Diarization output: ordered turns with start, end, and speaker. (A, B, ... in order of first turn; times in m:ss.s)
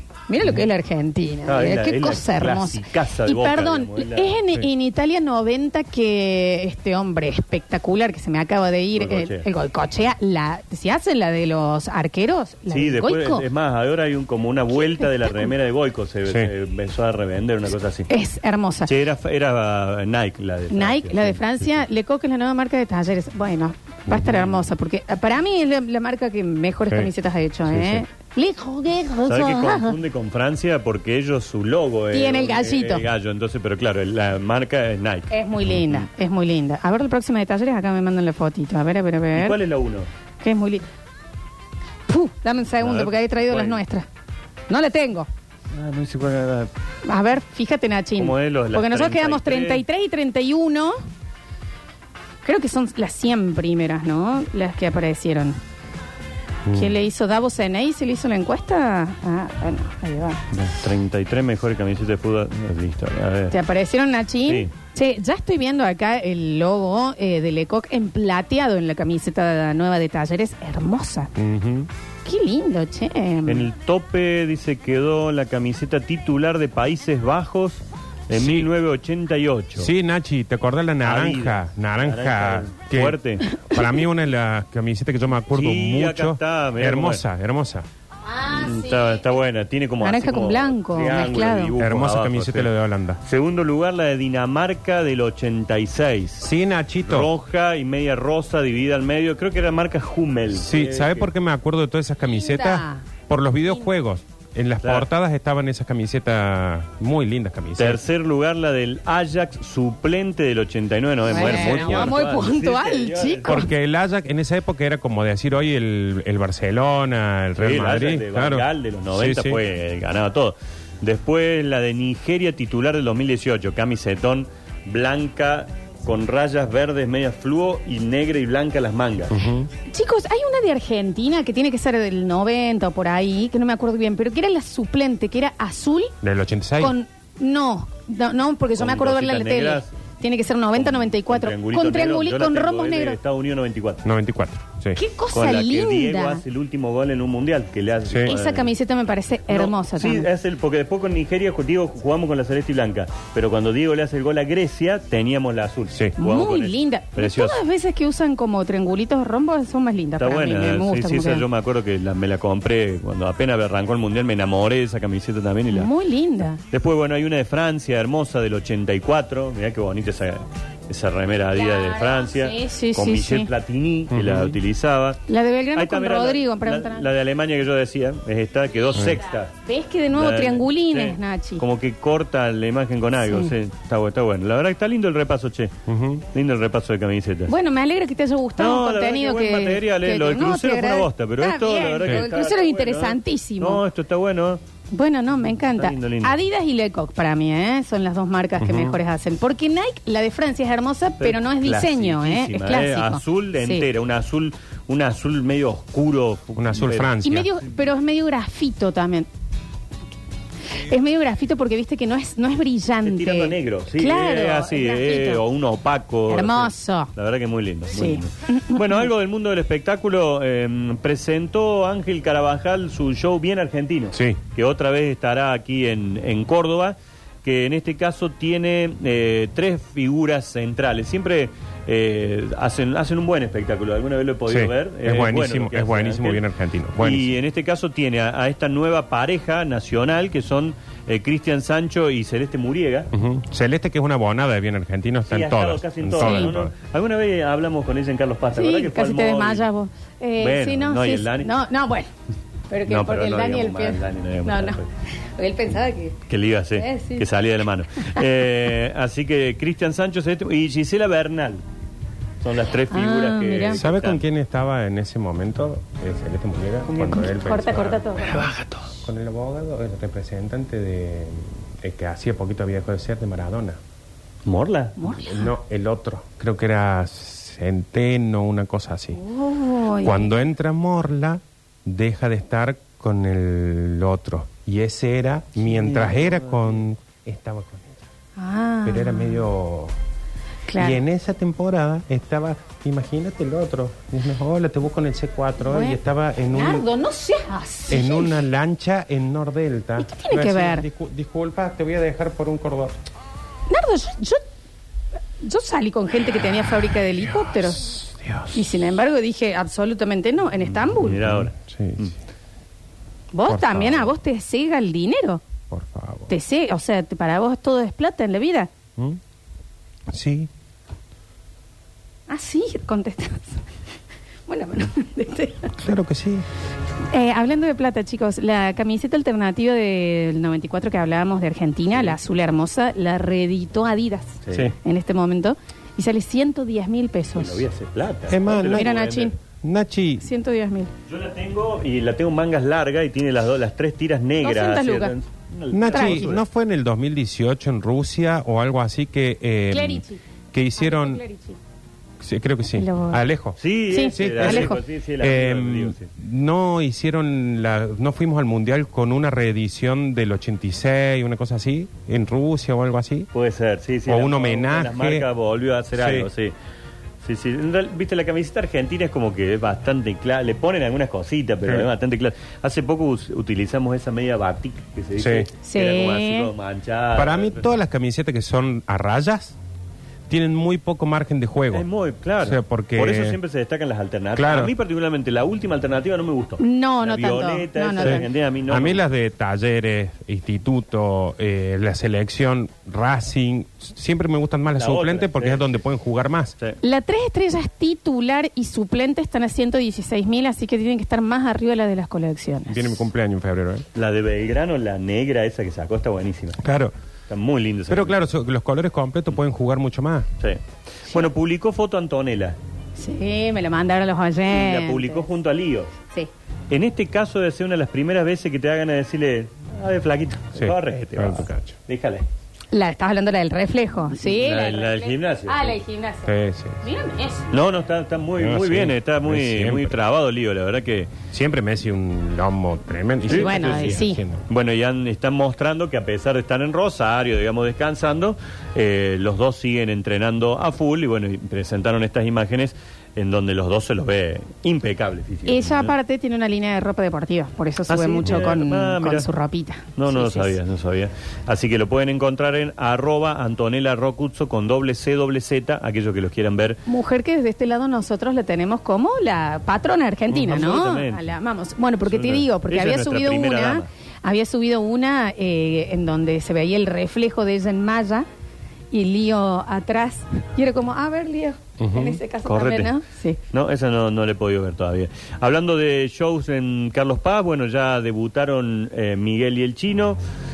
0:00.3-0:13.4 A
0:01.5-0:04.4 B
0:08.9-0:09.5 B
0:12.7-0:18.1 B
0:14.8-0:15.5 A
0:18.1-0:18.9 A
0:18.9-0:21.9 B
0:20.7-0:30.0 A
0:24.1-0:24.4 C
0:27.7-0:28.0 C
0:29.2-0:35.3 B
0:32.1-0:33.0 A
0:35.3-0:39.6 A
0:39.3-0:40.1 B
0:40.4-0:40.8 A
0:42.1-0:44.1 A
0:42.8-0:43.8 B
0:44.7-0:45.3 A
0:45.7-0:46.7 B
0:47.0-0:51.0 A
0:48.2-0:49.8 B
0:52.4-0:55.6 A
0:56.7-0:57.0 C
0:56.7-1:00.4 A
1:00.5-1:03.6 B
1:03.5-1:11.3 A
1:11.4-1:11.9 C
1:12.2-1:13.7 A
1:13.5-1:19.9 B
1:18.3-1:18.7 C
1:19.8-1:27.9 C
1:21.0-1:23.4 B
1:23.5-1:23.8 A
1:25.5-1:27.2 B
1:28.3-1:29.2 A
1:28.5-1:36.5 B
1:30.0-1:31.7 A
1:31.8-1:33.2 C
1:36.4-1:37.3 C
1:37.0-1:41.3 B
1:40.5-1:48.0 C
1:42.2-1:43.1 A
1:44.8-1:45.1 B
1:47.8-1:53.7 B
1:51.3-1:53.7 A
1:51.3-1:52.1 C
1:53.4-1:59.6 C
1:57.6-2:09.4 B
2:09.3-2:09.7 C
2:09.9-2:16.1 A
2:16.2-2:16.9 C
2:16.8-2:23.2 A
2:18.8-2:19.9 B
2:20.8-2:24.0 B
2:24.0-2:25.0 C
2:25.0-2:26.4 A
2:25.3-2:28.7 B
2:28.1-2:28.3 C
2:28.2-2:30.3 A
2:29.5-2:37.6 B
2:36.2-2:41.4 A
2:40.2-2:45.9 B
2:45.7-2:46.6 A
2:46.7-2:55.2 B
2:51.5-2:53.5 A
2:54.1-2:54.6 C
2:55.3-2:57.1 A
2:55.8-2:59.5 B
2:58.9-2:59.2 C
2:59.6-3:01.6 A
3:00.1-3:05.7 B
3:03.2-3:03.5 A
3:05.9-3:06.2 C
3:06.3-3:07.5 B
3:07.5-3:13.8 A
3:08.6-3:14.6 B
3:12.0-3:12.3 C
3:14.9-3:23.9 A
3:15.8-3:16.4 B
3:18.6-3:19.0 C
3:21.2-3:27.1 B
3:26.6-3:27.5 C
3:27.2-3:29.3 A
3:30.8-3:35.4 A
3:33.0-3:56.4 B
3:36.3-3:37.1 A
3:37.9-3:39.0 A
3:44.1-3:44.4 C
3:54.5-3:57.3 C
3:57.0-4:03.1 B
4:03.1-4:06.7 C
4:05.3-4:09.7 B
4:06.2-4:06.5 A
4:08.5-4:12.1 A
4:10.4-4:11.5 B
4:12.7-4:16.2 A
4:12.9-4:14.9 B
4:16.3-4:21.6 B
4:16.8-4:17.3 A
4:22.4-4:24.2 B
4:22.9-4:23.8 A
4:23.8-4:28.4 C
4:26.9-4:27.3 B
4:27.1-4:28.5 A
4:28.2-4:28.9 B
4:29.0-4:33.8 C
4:34.4-4:35.0 B
4:35.0-4:35.5 A
4:35.2-4:39.2 C
4:39.1-4:40.3 A
4:40.0-4:48.0 C
4:45.6-4:46.8 B
4:48.4-4:49.5 A
4:48.8-4:49.9 C
4:50.7-4:51.0 A
4:50.8-4:56.8 C
4:55.6-4:56.0 A
4:56.5-4:58.4 A
4:57.9-5:03.0 C
5:00.0-5:00.9 A
5:03.7-5:04.4 A
5:05.4-5:08.0 A
5:07.2-5:08.6 C
5:08.5-5:11.2 A
5:11.0-5:12.1 B
5:11.0-5:12.1 C
5:13.3-5:15.4 A
5:13.5-5:14.1 C
5:15.7-5:16.3 C
5:16.3-5:18.7 A
5:20.1-5:20.5 C
5:22.3-5:23.6 A
5:24.5-5:25.8 A
5:25.8-5:26.4 C
5:27.1-5:37.6 A
5:34.4-5:34.7 B
5:37.4-5:39.3 B
5:38.3-5:38.9 C
5:38.7-5:39.4 A
5:39.5-5:40.2 C
5:40.2-5:40.9 A
5:41.1-5:46.4 B
5:44.4-5:45.1 A
5:45.7-5:51.2 C
5:45.9-5:46.3 A
5:49.7-5:50.2 A
5:50.8-5:51.6 A
5:52.2-5:53.6 C
5:52.8-5:53.2 A
5:53.6-5:56.1 B
5:53.9-5:54.8 A
5:54.1-6:03.3 C
6:03.3-6:06.5 B
6:04.1-6:05.2 C
6:05.9-6:06.3 C
6:07.2-6:17.8 B
6:15.2-6:15.5 C
6:15.6-6:16.5 A
6:17.1-6:19.6 C
6:20.3-6:21.9 C
6:21.7-6:29.0 B
6:22.4-6:23.4 C
6:24.4-6:24.7 C
6:26.6-6:28.2 A
6:28.0-6:36.6 C
6:34.8-6:35.7 B
6:36.8-6:43.1 A
6:42.7-6:43.8 C
6:44.0-6:46.6 B
6:46.6-6:46.9 C
6:47.3-6:48.2 B
6:47.9-6:50.3 C
6:50.4-6:52.6 B
6:53.0-6:55.3 A
6:54.5-6:55.9 B
6:56.7-7:02.3 B
7:00.5-7:01.8 C
7:02.7-7:07.5 A
7:04.2-7:05.8 B
7:06.2-7:06.8 C
7:07.5-7:11.1 B
7:08.4-7:10.0 C
7:11.3-7:14.4 C
7:13.3-7:25.9 B
7:13.3-7:14.2 A
7:25.5-7:30.6 A
7:27.9-7:29.3 B
7:30.0-7:36.8 B
7:36.9-7:48.2 A
7:40.3-7:41.3 B
7:42.0-7:43.9 B
7:48.9-7:53.4 A
7:51.8-7:52.2 C
7:52.4-7:52.9 B
7:53.5-8:00.2 B